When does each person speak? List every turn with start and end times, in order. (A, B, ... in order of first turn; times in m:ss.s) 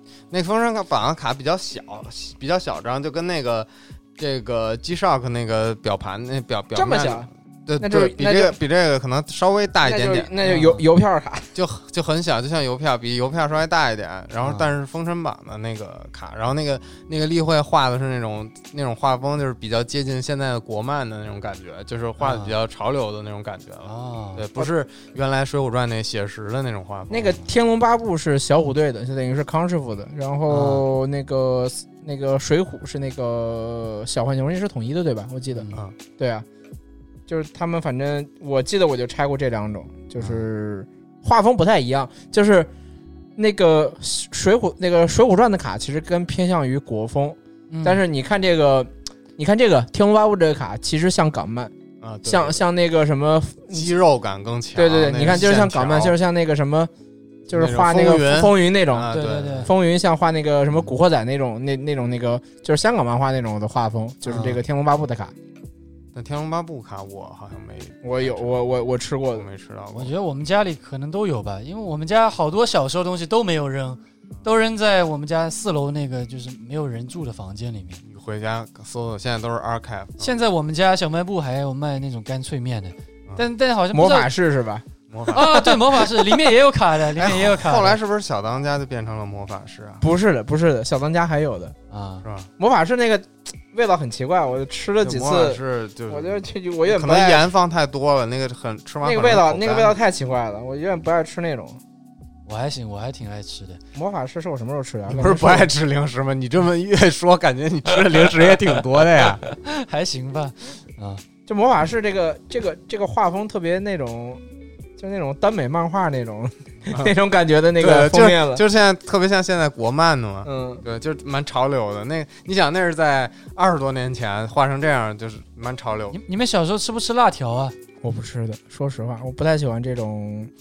0:00.3-0:10.3 A
0:06.7-0:08.6 B
0:09.8-0:11.5 B
0:10.4-0:10.8 C
0:11.5-0:27.4 A
0:14.4-0:14.7 C
0:22.2-0:22.6 C
0:23.8-0:24.4 C
0:27.1-0:35.7 B
0:30.5-0:30.8 C
0:35.5-0:35.8 C
0:36.2-0:36.5 B
0:37.3-0:42.7 B
0:40.2-0:40.4 C
0:43.4-0:51.7 B
0:47.7-0:48.0 C
0:52.0-0:52.6 A
0:52.2-0:53.9 B
0:53.7-0:56.2 A
0:54.8-0:56.9 B
0:57.5-1:05.3 B
0:57.5-0:59.7 A
0:59.1-0:59.7 C
1:04.3-1:04.6 C
1:06.1-1:08.7 A
1:08.0-1:09.5 B
1:09.3-1:10.1 A
1:09.9-1:18.0 C
1:18.0-1:20.4 A
1:20.2-1:24.3 C
1:23.9-1:24.9 B
1:25.1-1:25.7 A
1:25.3-1:28.0 C
1:27.2-1:30.0 A
1:30.0-1:31.8 B
1:31.9-1:32.2 C
1:32.2-1:32.5 A
1:32.6-1:37.5 B
1:35.0-1:40.0 A
1:39.0-1:41.8 B
1:42.5-1:43.8 C
1:44.0-1:45.7 B
1:45.1-1:49.4 A
1:49.4-1:51.2 C
1:51.5-1:54.4 B
1:55.0-1:58.6 B
1:57.8-2:06.2 A
2:00.4-2:00.8 B
2:06.1-2:07.8 C
2:08.0-2:10.5 B